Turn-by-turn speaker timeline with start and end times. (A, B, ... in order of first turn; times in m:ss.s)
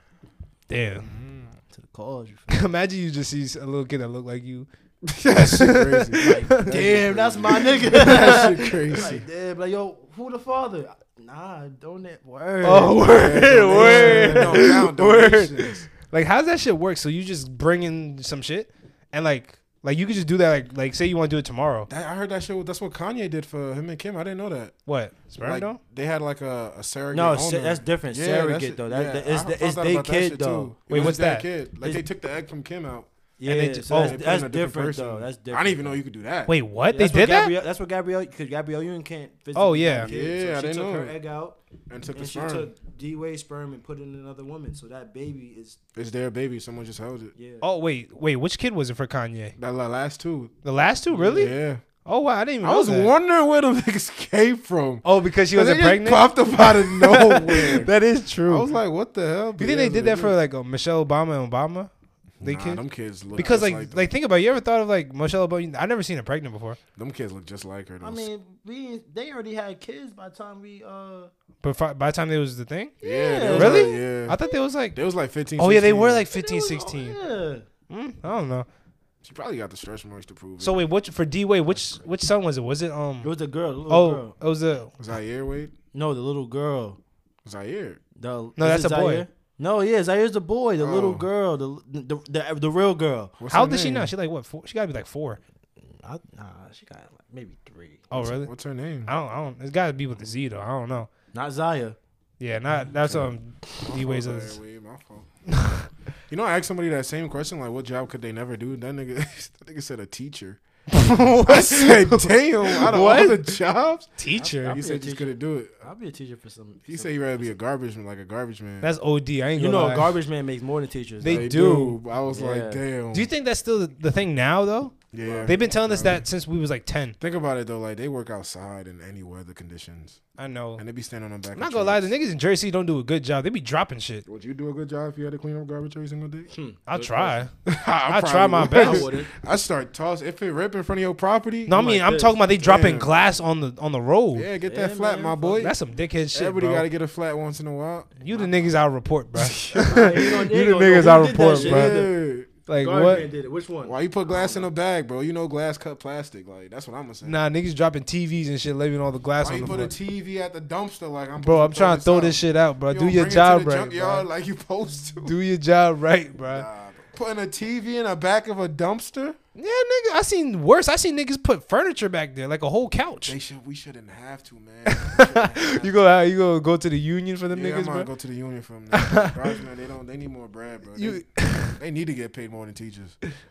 0:00.7-0:01.1 A
0:01.0-0:01.6 B
0:01.7-0:02.7 C
0:02.5-0:04.7 A
0:05.1-0:09.2 B
0:05.2-0:06.8 A
0:06.2-0:14.7 C
0:08.0-0:08.4 A
0:12.6-0:21.9 A
0:13.1-0:15.9 B
0:21.9-0:24.8 B
0:24.9-0:25.8 A
0:25.4-0:33.1 B
0:27.1-0:31.1 C
0:30.9-0:31.5 A
0:33.4-0:36.0 C
0:33.4-0:34.2 A
0:33.9-0:36.5 B
0:36.5-0:37.5 A
0:36.9-0:41.6 C
0:39.6-0:40.1 A
0:40.0-0:41.2 B
0:41.9-0:42.7 B
0:42.2-0:45.8 C
0:46.0-0:47.3 B
0:47.4-0:47.7 C
0:47.6-0:49.6 A
0:49.6-0:50.5 B
0:50.6-0:53.1 A
0:51.1-0:51.5 C
0:51.4-0:51.8 B
0:52.6-0:57.9 B
0:55.0-0:58.7 A
0:58.5-1:00.4 B
0:59.6-1:01.9 A
1:02.4-1:02.8 A
1:02.4-1:04.1 B
1:03.4-1:06.8 A
1:07.0-1:08.3 B
1:08.0-1:11.3 C
1:11.6-1:15.0 A
1:13.0-1:14.0 C
1:13.0-1:14.4 B
1:14.9-1:16.3 B
1:15.6-1:17.2 A
1:16.3-1:17.7 C
1:17.9-1:18.7 A
1:19.2-1:20.8 B
1:20.6-1:23.3 A
1:23.2-1:24.3 C
1:23.9-1:24.9 A
1:25.0-1:25.7 B
1:25.9-1:27.0 C
1:27.4-1:28.0 B
1:28.2-1:33.4 C
1:28.6-1:29.3 A
1:30.8-1:31.3 B
1:33.4-1:34.1 B
1:33.5-1:35.4 A
1:35.8-1:38.1 C
1:38.1-1:38.5 A
1:38.1-1:39.1 B
1:39.1-1:41.1 A
1:41.3-1:42.0 C
1:42.4-1:44.6 A
1:43.0-1:45.3 B
1:45.6-1:45.9 A
1:46.3-1:50.6 B
1:50.9-1:53.6 A
1:51.4-1:54.1 B
1:54.2-1:54.8 A
1:54.3-1:57.6 C
1:54.7-1:55.8 B
1:56.9-1:58.9 B
1:58.8-2:00.2 A
1:59.6-2:01.7 C
2:01.2-2:02.0 A
2:01.2-2:03.3 B
2:02.3-2:02.8 C
2:03.1-2:05.0 A
2:05.1-2:06.2 B
2:05.2-2:05.6 C
2:05.5-2:07.2 A
2:07.2-2:10.2 B
2:10.4-2:10.8 A
2:10.8-2:12.1 B
2:11.5-2:14.2 A
2:14.3-2:16.5 B
2:16.5-2:17.4 C
2:16.9-2:17.5 A
2:17.7-2:21.8 B
2:18.1-2:19.1 A
2:18.6-2:19.3 C
2:21.7-2:24.5 A
2:21.7-2:22.4 C
2:22.6-2:23.1 B
2:24.3-2:25.8 B
2:24.6-2:25.7 C
2:25.6-2:26.9 A
2:26.3-2:28.7 B
2:28.2-2:32.1 A
2:29.4-2:30.1 B
2:29.7-2:32.1 C
2:31.4-2:32.5 B
2:32.7-2:33.3 A
2:32.7-2:34.7 C
2:33.8-2:37.4 B
2:37.2-2:39.9 A
2:39.4-2:45.4 B
2:41.4-2:44.3 A
2:45.2-2:46.7 A
2:46.5-2:49.4 B
2:49.6-2:53.4 A
2:53.2-2:56.0 B
2:54.9-2:58.1 A
2:57.5-3:03.2 B
2:58.9-2:59.4 A
3:00.9-3:01.8 A